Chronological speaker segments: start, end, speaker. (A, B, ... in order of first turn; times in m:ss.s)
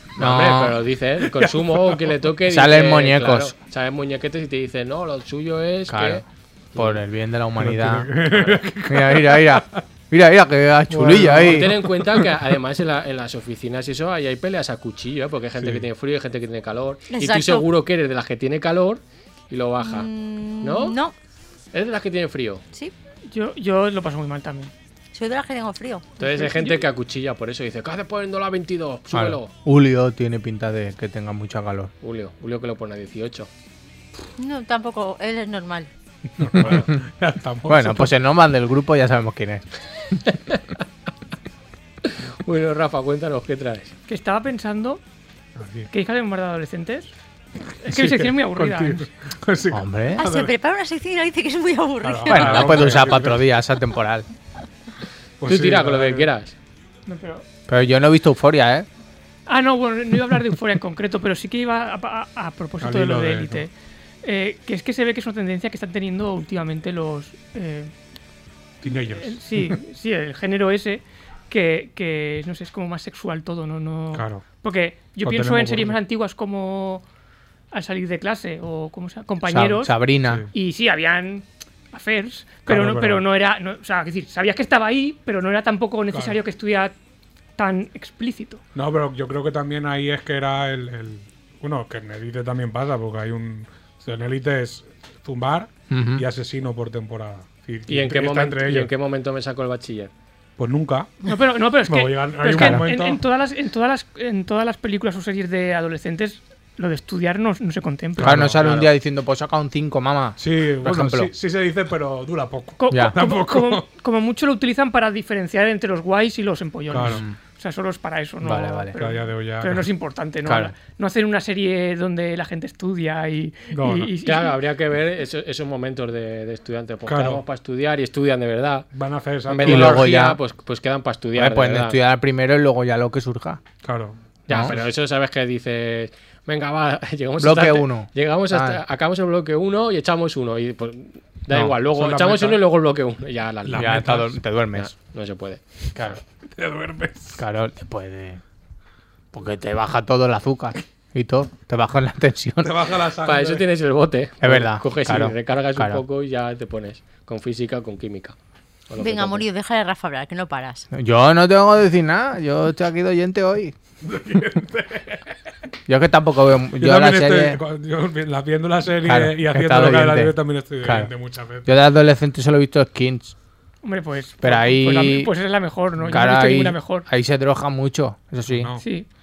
0:00.2-0:00.8 A
0:00.2-0:07.0 B
0:01.2-0:02.0 C
0:02.4-0:03.6 A
0:05.9-0:06.2 A
0:06.8-0:08.2 A
0:07.6-0:09.8 C
0:08.3-0:08.6 B
0:08.9-0:11.8 A
0:10.9-0:12.4 C
0:11.3-0:20.1 B
0:15.6-0:15.8 C
0:17.1-0:17.7 D
0:19.8-0:21.1 D
0:20.6-0:21.0 B
0:21.7-0:22.6 B
0:23.3-0:24.7 E
0:25.1-0:26.1 D
0:26.2-0:29.5 B
0:26.2-0:26.8 E
0:29.1-0:31.9 A
0:32.0-0:33.5 B
0:34.4-0:35.9 D
0:36.4-0:38.2 C
0:37.7-0:39.6 A
0:40.3-0:40.6 B
0:42.0-0:43.9 B
0:44.1-0:45.0 E
0:45.6-0:45.9 C
0:45.9-0:47.1 E
0:47.8-0:49.0 E
0:47.8-0:50.5 C
0:49.7-0:50.2 A
0:50.1-0:53.1 D
0:52.0-0:53.5 C
0:52.3-0:54.3 A
0:55.4-0:56.3 C
0:55.4-0:56.6 B
0:57.1-0:57.4 E
0:57.7-0:58.9 A
0:59.5-1:03.7 E
1:02.8-1:03.7 C
1:04.2-1:07.9 E
1:08.8-1:09.8 C
1:09.1-1:17.0 E
1:14.1-1:14.4 C
1:15.2-1:16.0 C
1:17.7-1:26.9 E
1:19.4-1:20.5 A
1:22.7-1:23.2 C
1:26.1-1:26.4 C
1:27.6-1:28.6 E
1:28.8-1:38.9 C
1:35.9-1:36.2 A
1:37.9-1:40.1 B
1:40.6-1:41.3 C
1:41.2-1:48.5 E
1:41.9-1:43.2 C
1:42.5-1:42.9 A
1:48.2-1:48.8 C
1:48.2-1:51.3 A
1:48.6-1:48.9 B
1:50.4-1:53.8 C
1:52.8-2:04.6 E
1:52.9-1:53.2 A
1:56.9-1:57.2 C
1:57.1-1:57.4 A
1:58.4-1:59.0 A
1:59.0-1:59.9 C
2:00.4-2:00.7 A
2:03.7-2:04.1 C
2:04.2-2:08.9 B
2:07.1-2:07.4 C
2:08.9-2:10.0 C
2:09.5-2:12.0 B
2:09.6-2:10.4 A
2:11.3-2:13.6 A
2:13.8-2:14.9 C
2:14.5-2:24.2 B
2:17.4-2:18.8 A
2:21.9-2:22.6 C
2:23.6-2:24.4 C
2:23.7-2:24.9 A
2:24.7-2:25.6 B
2:26.0-2:26.2 A
2:26.0-2:27.4 C
2:27.4-2:28.4 A
2:29.3-2:32.8 A
2:32.6-2:33.7 C
2:33.2-2:38.4 B
2:34.4-2:36.0 A
2:38.9-2:39.5 B
2:39.0-2:40.9 D
2:40.9-2:43.7 A
2:44.0-2:45.2 C
2:45.9-2:47.6 A
2:46.8-2:51.7 C
2:49.0-2:51.1 A
2:51.6-2:53.3 A
2:53.8-2:57.1 E
2:54.4-2:55.3 A
2:56.0-2:56.4 C
2:56.1-2:58.7 A
2:58.5-2:58.8 C
2:58.8-2:59.1 E